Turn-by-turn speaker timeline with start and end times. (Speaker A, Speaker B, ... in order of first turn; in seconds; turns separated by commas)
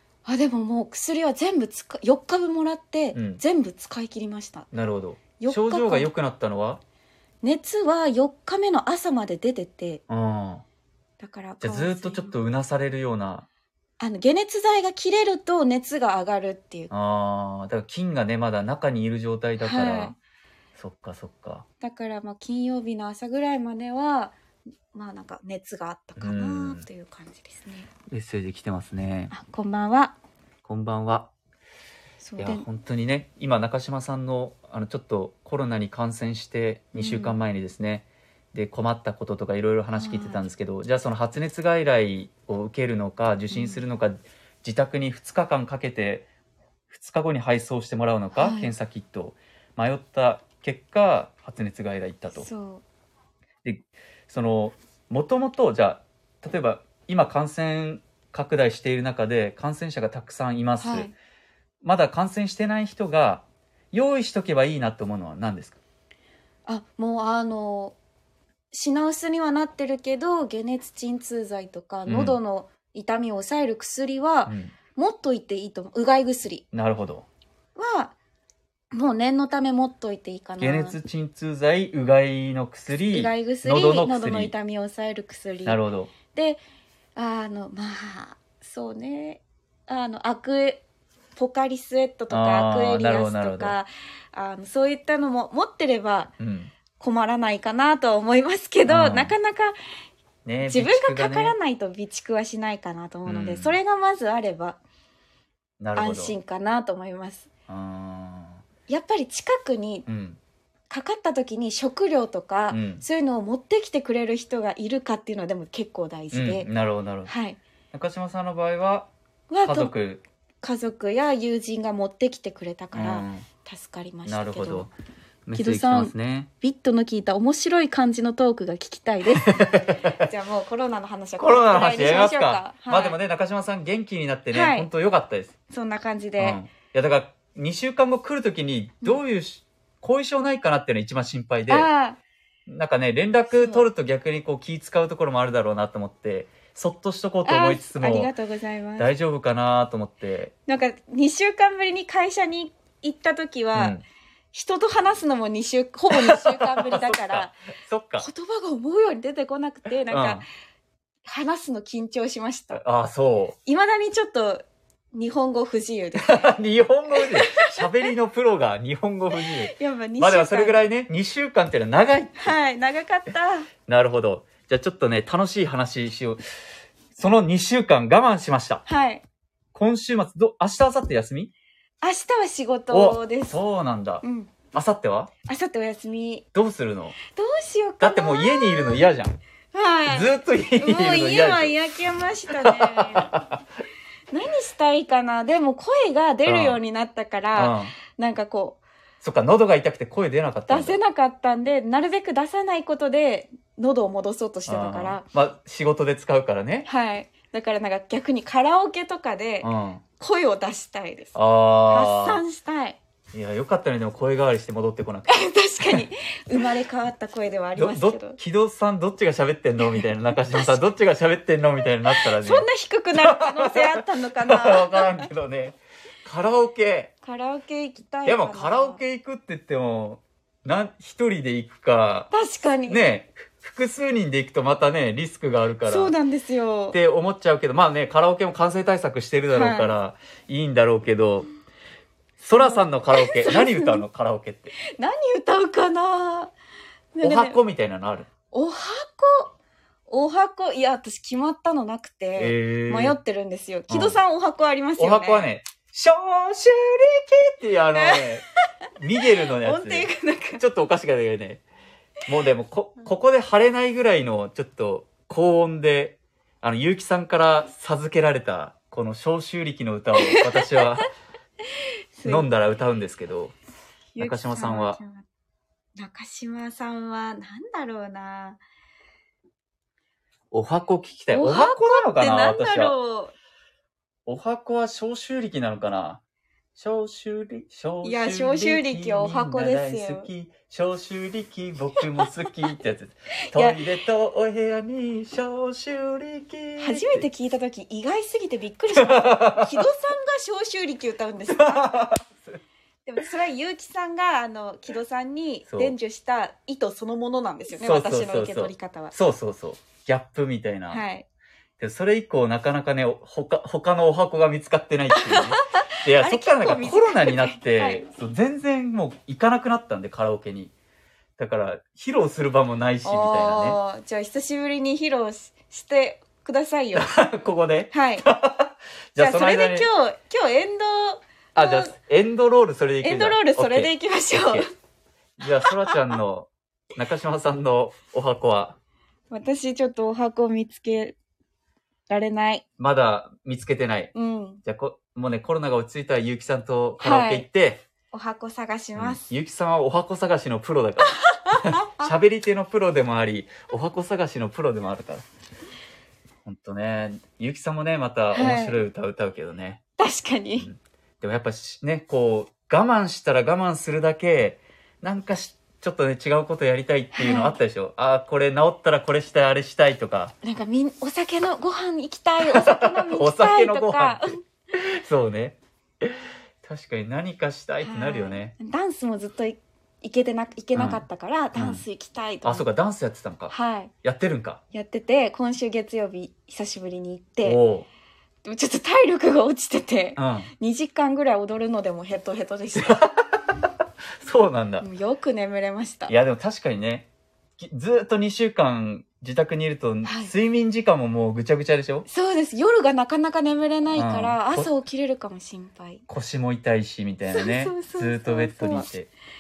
Speaker A: 0.2-4.7, Speaker B: 3.1-3.4, Speaker B: 4.7-6.8, Speaker A: 5.4-6.1, Speaker A: 7.4-10.0, Speaker B: 10.1-10.6, Speaker A: 11.2-12.3, Speaker B: 11.6-13.4, Speaker A: 14.0-16.9, Speaker B: 16.9-20.1, Speaker A: 19.6-20.1, Speaker B: 20.8-21.6, Speaker A: 21.8-24.4, Speaker A: 24.9-27.9, Speaker B: 26.2-26.9, Speaker B: 28.1-29.3, Speaker A: 29.3-30.1, Speaker B: 30.6-31.3, Speaker A: 32.2-32.6, Speaker B: 32.4-46.3, Speaker A: 36.9-37.4, Speaker A: 39.9-40.5, Speaker A: 43.5-43.8, Speaker B: 46.9-52.5, Speaker A: 48.3-48.7, Speaker A: 52.3-52.8, Speaker B: 53.6-61.1, Speaker A: 60.8-61.1, Speaker B: 61.8-65.8, Speaker A: 66.7-68.0, Speaker A: 68.7-76.6, Speaker B: 72.0-72.4, Speaker B: 74.5-74.7, Speaker B: 76.7-77.2, Speaker A: 77.8-78.1, Speaker A: 78.9-81.0, Speaker B: 80.6-84.5, Speaker A: 83.1-85.8, Speaker B: 85.6-86.1, Speaker A: 86.3-86.6, Speaker A: 87.2-90.8, Speaker A: 91.3-96.3, Speaker B: 92.3-93.8, Speaker B: 96.4-96.7, Speaker A: 97.0-99.8, Speaker B: 98.9-99.3, Speaker B: 100.4-101.5, Speaker A: 100.6-104.8, Speaker B: 103.2-103.8, Speaker B: 105.8-106.3, Speaker A: 106.0-107.5, Speaker B: 107.7-108.6, Speaker A: 108.9-110.0, Speaker B: 110.0-110.4, Speaker A: 110.9-116.7, Speaker B: 112.7-113.0, Speaker B: 116.3-117.3, Speaker A: 117.2-117.6, Speaker B: 117.9-119.1, Speaker A: 119.5-119.9, Speaker B: 119.6-120.2, Speaker A: 120.6-124.9, Speaker B: 122.9-123.5, Speaker B: 124.2-124.9, Speaker B: 125.5-126.5, Speaker A: 125.5-133.2, Speaker B: 129.3-130.3, Speaker B: 131.4-135.5, Speaker A: 134.5-134.9, Speaker A: 135.7-136.6, Speaker B: 136.4-141.9, Speaker A: 141.7-142.2, Speaker B: 142.7-148.3, Speaker A: 143.5-143.8, Speaker A: 147.4-149.1, Speaker B: 149.0-150.5, Speaker A: 150.7-153.9, Speaker B: 153.7-154.0, Speaker A: 154.5-157.6, Speaker B: 156.1-158.3, Speaker A: 158.2-160.4, Speaker B: 160.1-160.4, Speaker A: 161.2-162.8, Speaker B: 162.7-163.6, Speaker A: 163.7-166.5, Speaker B: 166.2-172.5, Speaker A: 167.1-167.9, Speaker A: 169.4-170.8, Speaker A: 172.4-173.7, Speaker B: 173.9-176.4, Speaker B: 177.1-178.8, Speaker A: 178.8-179.2, Speaker B: 179.7-181.5, Speaker A: 182.0-183.6, Speaker B: 182.9-185.3, Speaker A: 184.2-184.5, Speaker A: 185.4-186.4, Speaker B: 186.5-187.2, Speaker A: 187.2-189.0, Speaker B: 188.0-189.4, Speaker A: 189.7-193.3, Speaker B: 190.1-191.8, Speaker B: 192.6-193.6, Speaker A: 194.3-198.8, Speaker B: 196.4-196.8, Speaker B: 197.5-197.9, Speaker B: 199.2-201.0, Speaker A: 200.7-205.2, Speaker B: 204.7-206.9, Speaker A: 206.8-211.3, Speaker B: 209.6-210.0, Speaker B: 211.3-212.4, Speaker A: 211.9-213.0, Speaker B: 213.3-216.0, Speaker A: 215.3-218.4, Speaker B: 217.8-227.1, Speaker A: 219.8-220.8, Speaker A: 222.1-225.3, Speaker A: 227.2-229.0, Speaker B: 228.2-232.3, Speaker A: 232.3-233.0, Speaker B: 232.9-236.1, Speaker A: 235.8-236.9, Speaker B: 236.9-241.5, Speaker A: 239.5-239.9, Speaker B: 242.4-244.8, Speaker A: 242.6-244.0, Speaker A: 244.9-246.5, Speaker A: 247.1-247.6, Speaker B: 247.2-248.3, Speaker A: 248.5-249.5, Speaker A: 250.1-255.5, Speaker B: 252.4-253.2, Speaker B: 253.9-254.2, Speaker B: 255.0-258.4, Speaker A: 257.9-258.4, Speaker B: 259.0-261.6, Speaker A: 259.4-260.6, Speaker B: 262.2-271.1, Speaker A: 270.2-270.8, Speaker A: 271.7-272.5, Speaker B: 272.2-273.6, Speaker A: 274.1-275.2, Speaker B: 274.2-275.0, Speaker A: 275.9-278.6, Speaker B: 280.5-282.9, Speaker A: 281.3-283.3, Speaker B: 284.2-286.2, Speaker B: 286.8-297.2, Speaker A: 288.0-290.3, Speaker A: 293.5-293.8, Speaker A: 296.8-302.0, Speaker B: 298.9-299.8, Speaker B: 301.5-302.6, Speaker A: 303.1-309.1, Speaker B: 305.7-305.9, Speaker B: 307.8-311.0, Speaker A: 310.9-311.2, Speaker B: 311.8-320.7, Speaker A: 315.1-318.0, Speaker B: 321.4-323.8, Speaker A: 323.0-327.1, Speaker B: 326.9-329.9, Speaker A: 327.9-328.2, Speaker A: 329.2-331.9, Speaker B: 331.6-334.7, Speaker A: 333.0-334.6, Speaker B: 335.4-338.8, Speaker A: 335.6-336.2, Speaker A: 339.3-341.1, Speaker A: 342.1-342.6, Speaker B: 342.8-344.1, Speaker A: 344.1-344.6, Speaker B: 344.6-347.8, Speaker A: 347.0-347.5, Speaker A: 348.1-349.2, Speaker B: 348.9-355.2, Speaker A: 351.2-352.1, Speaker B: 356.4-359.8, Speaker A: 358.3-358.8, Speaker A: 360.0-360.7, Speaker B: 360.6-370.3, Speaker A: 367.1-367.6, Speaker A: 370.4-374.4, Speaker B: 372.4-378.5, Speaker A: 377.8-382.6, Speaker B: 380.7-381.8, Speaker B: 382.4-384.6, Speaker A: 383.5-383.9, Speaker A: 384.7-387.6, Speaker B: 387.4-387.9, Speaker A: 388.4-393.0, Speaker B: 390.2-390.5, Speaker B: 392.7-393.4, Speaker B: 394.2-394.9, Speaker A: 394.8-396.1, Speaker B: 396.1-397.1, Speaker B: 397.6-402.1, Speaker A: 400.0-400.3, Speaker A: 402.1-406.0, Speaker B: 403.9-404.7, Speaker B: 406.1-409.1, Speaker A: 407.3-408.9